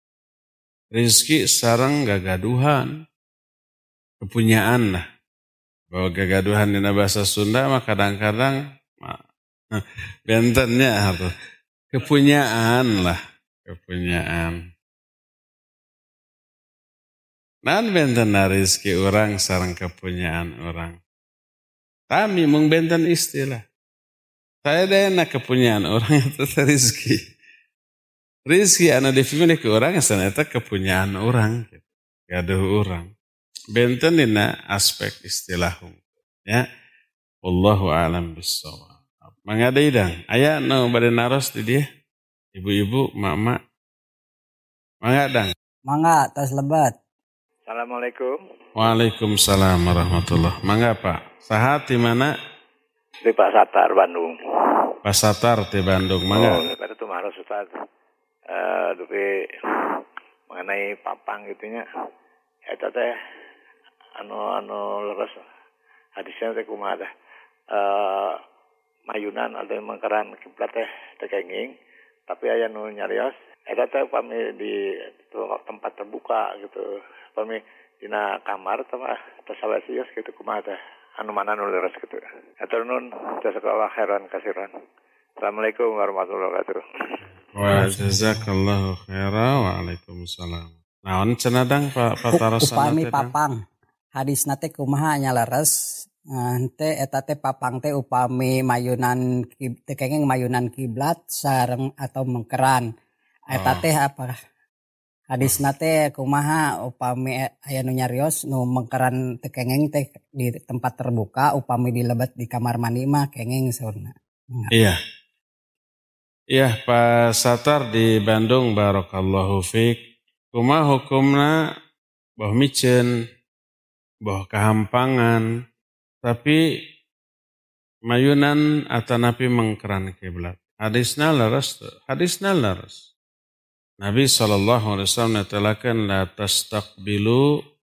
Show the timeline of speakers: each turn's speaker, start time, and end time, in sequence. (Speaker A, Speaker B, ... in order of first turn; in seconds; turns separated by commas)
Speaker A: 0.9-2.9, Speaker A: 4.2-5.0, Speaker A: 5.9-9.2, Speaker A: 9.7-11.3, Speaker A: 11.9-14.6, Speaker A: 17.6-21.0, Speaker A: 22.1-23.6, Speaker A: 24.6-27.2, Speaker A: 28.5-33.1, Speaker A: 33.7-36.6, Speaker A: 37.4-41.8, Speaker A: 42.5-43.6, Speaker A: 45.0-45.5, Speaker B: 45.9-46.9, Speaker C: 47.7-48.3, Speaker A: 48.8-52.3, Speaker C: 53.2-54.3, Speaker A: 55.0-56.6, Speaker C: 56.3-57.7, Speaker C: 58.5-59.2, Speaker C: 60.5-61.8, Speaker C: 62.7-63.1, Speaker C: 64.2-65.4, Speaker C: 66.2-67.1, Speaker C: 67.7-68.4, Speaker C: 69.1-71.7, Speaker C: 72.3-74.7, Speaker C: 75.2-76.8, Speaker C: 77.3-84.7, Speaker C: 85.4-86.8, Speaker A: 87.5-93.3, Speaker B: 87.7-88.5, Speaker B: 92.3-93.5, Speaker B: 94.2-95.7, Speaker B: 96.3-102.9, Speaker A: 103.5-103.8, Speaker B: 103.5-104.3, Speaker B: 105.3-114.7, Speaker A: 116.5-120.0, Speaker A: 120.5-121.5, Speaker A: 122.4-123.1, Speaker A: 124.3-125.5, Speaker A: 126.2-126.6, Speaker A: 128.1-133.0, Speaker A: 134.0-137.4